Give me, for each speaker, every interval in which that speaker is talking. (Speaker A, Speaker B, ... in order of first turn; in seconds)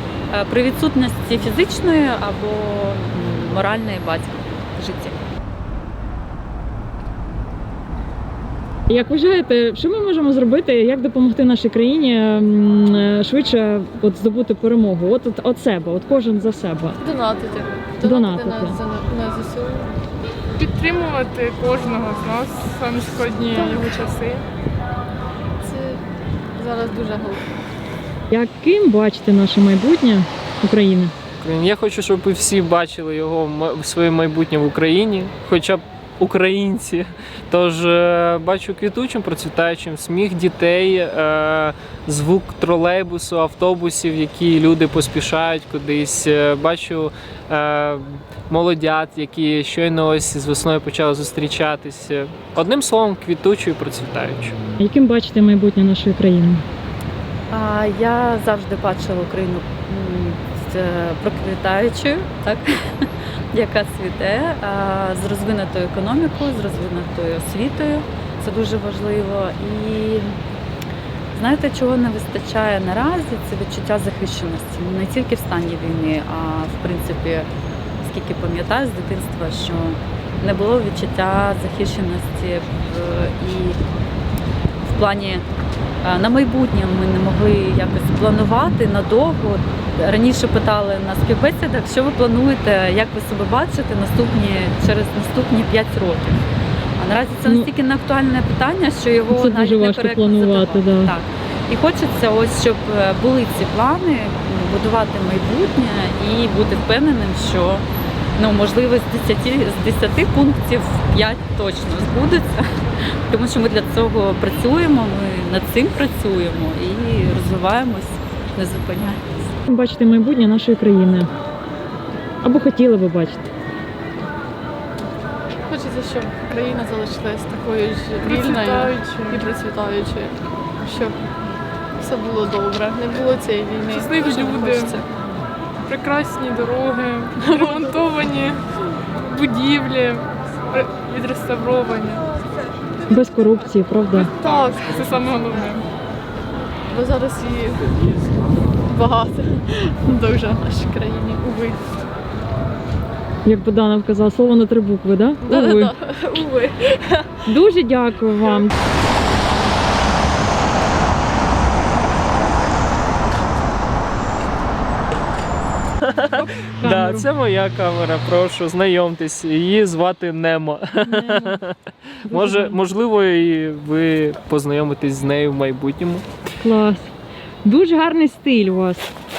Speaker A: 0.3-5.2, 57.5-70.3, 71.3-77.5, 78.0-83.8, 84.9-85.4, 86.0-96.4, 97.0-107.8, 108.4-112.7, 113.3-119.5
Speaker B: 8.9-17.0, 18.0-18.8, 28.3-31.1, 54.8-56.6, 97.4-97.7, 99.3-101.1, 119.7-121.3, 122.4-123.5, 143.1-144.3, 153.4-155.9, 157.4-158.7, 166.3-167.3, 171.0-171.6, 172.3-172.8, 176.6-177.1, 177.6-179.1
Speaker C: 17.0-19.9, 23.5-23.9, 25.6-26.0, 26.6-27.4, 125.7-131.3, 132.0-135.1, 137.4-137.9, 144.2-145.3, 146.9-147.8, 148.9-151.8, 155.5-157.3
Speaker D: 20.6-24.4, 128.2-129.5, 133.9-135.0, 135.9-138.6, 139.2-142.3, 144.4-145.8
Speaker E: 31.4-54.5, 166.0-171.7, 172.2-176.2